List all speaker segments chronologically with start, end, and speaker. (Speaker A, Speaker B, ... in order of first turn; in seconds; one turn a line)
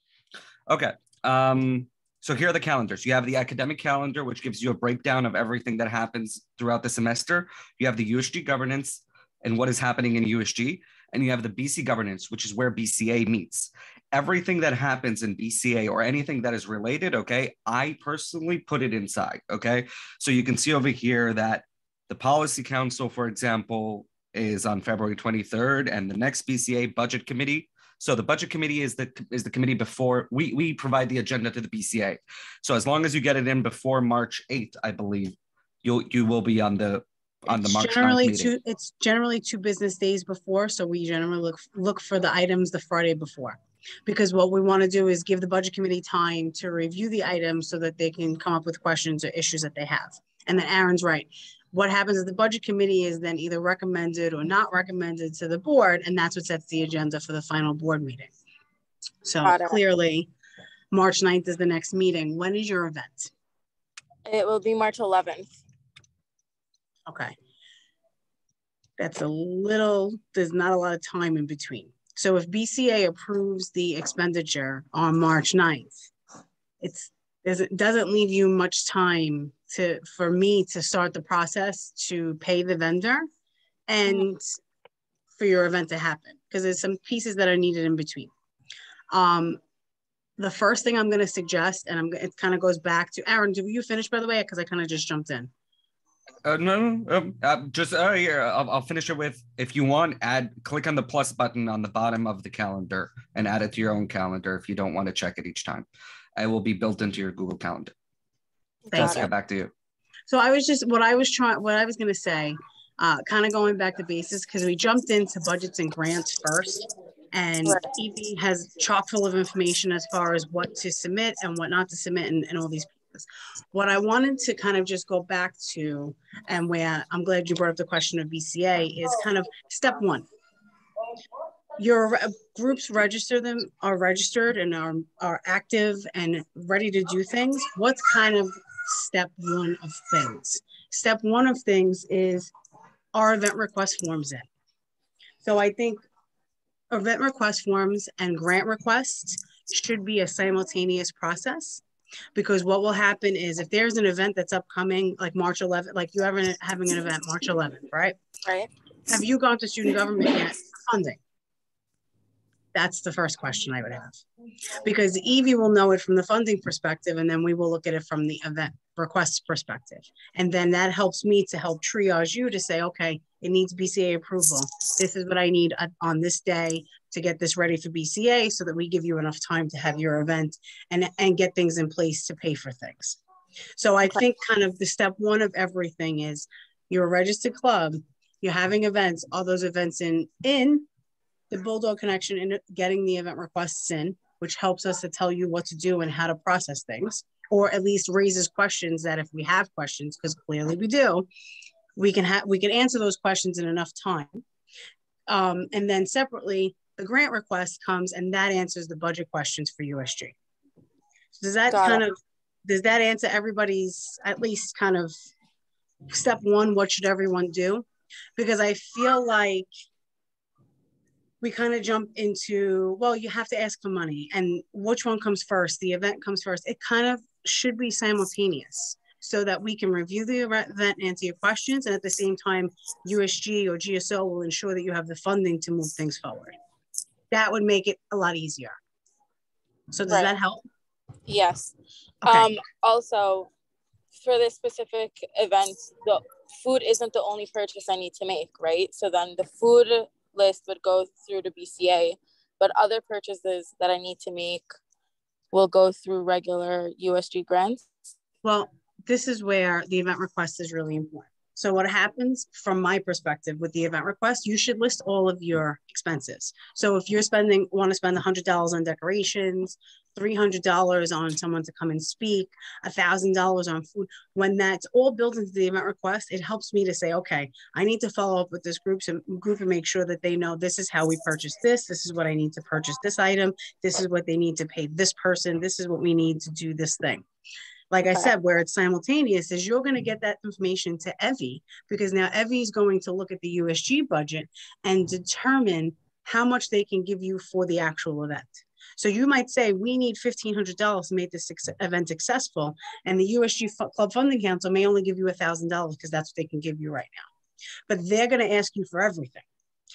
Speaker A: 0.7-38.5
Speaker B: 37.5-58.3
Speaker B: 59.2-60.3
Speaker C: 59.4-59.8
Speaker B: 60.9-63.3
Speaker C: 64.3-65.5
Speaker B: 67.1-67.3
Speaker B: 69.0-76.1
Speaker B: 76.8-83.3
Speaker B: 83.9-84.5
Speaker B: 85.4-88.3
Speaker B: 89.1-89.6
Speaker B: 90.4-95.5
Speaker A: 96.5-105.9
Speaker A: 106.4-107.9
Speaker C: 108.9-109.3
Speaker A: 108.9-109.7
Speaker B: 109.0-109.2
Speaker B: 110.3-130.3
Speaker B: 131.8-142.5
Speaker B: 143.1-144.5
Speaker B: 145.4-146.0
Speaker B: 146.9-151.8
Speaker B: 152.3-158.2
Speaker B: 159.1-161.2
Speaker B: 162.7-164.2
Speaker B: 164.8-183.2
Speaker B: 183.8-190.9
Speaker B: 191.5-201.3
Speaker B: 202.0-204.4
Speaker B: 205.3-210.3
Speaker B: 211.4-212.1
Speaker C: 211.7-212.1
Speaker B: 212.7-215.1
Speaker B: 216.1-219.7
Speaker B: 221.4-236.6
Speaker B: 237.3-238.8
Speaker B: 239.9-240.6
Speaker C: 240.1-240.3
Speaker C: 241.3-241.7
Speaker B: 242.2-242.5
Speaker C: 242.2-243.5
Speaker C: 244.1-254.7
Speaker C: 255.5-257.9
Speaker B: 258.4-287.2
Speaker B: 287.9-307.3
Speaker B: 307.9-309.4